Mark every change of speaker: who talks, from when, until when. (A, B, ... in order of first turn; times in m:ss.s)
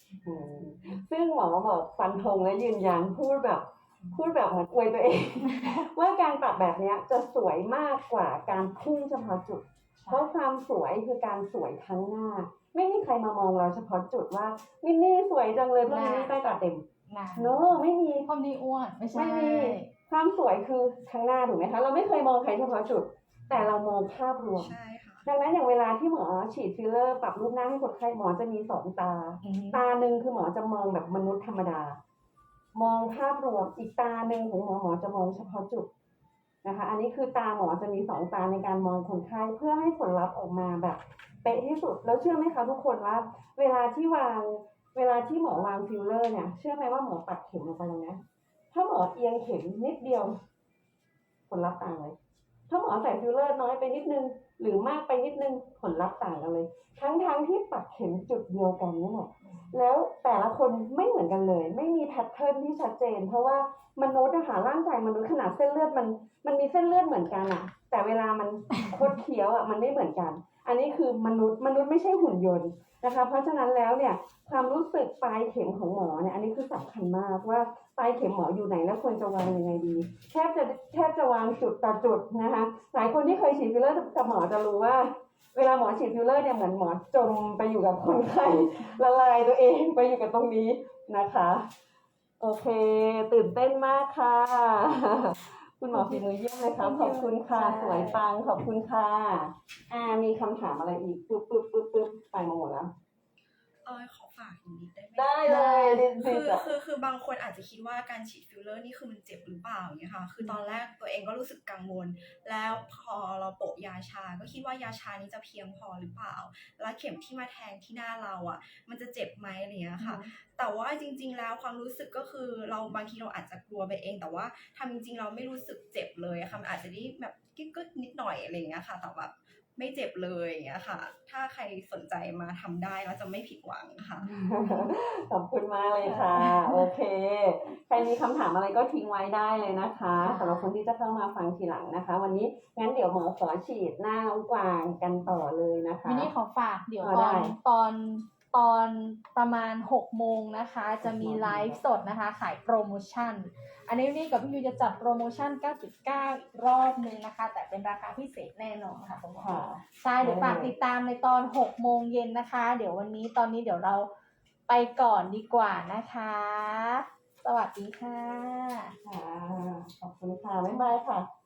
0:00.2-0:16.8 A
0:10.0-0:10.3 B
0:15.9-0:16.3 B
0:17.1-0:19.9 B
0:17.4-0:18.3 A
0:19.1-0:24.7 A
0:24.6-0:25.3 C
0:25.2-0:32.0 A
0:29.4-0:29.8 B
0:32.8-0:35.9 A
0:36.6-0:48.2 A
0:48.7-0:50.4 A
0:51.5-0:52.2 A
0:52.7-1:31.7 A
1:32.4-1:42.9 A
1:35.9-1:38.2 B
1:43.8-2:14.3 C
1:45.2-1:46.7 A
1:45.5-1:46.0 B
2:00.0-2:00.2 B
2:14.3-2:26.3 A
2:14.6-2:14.9 B
2:16.1-2:16.9 B
2:20.2-2:20.7 B
2:26.0-2:44.1 B
2:27.0-2:27.6 A
2:31.0-2:31.8 A
2:39.4-2:40.8 A
2:44.7-2:49.0 B
2:49.0-2:51.3 A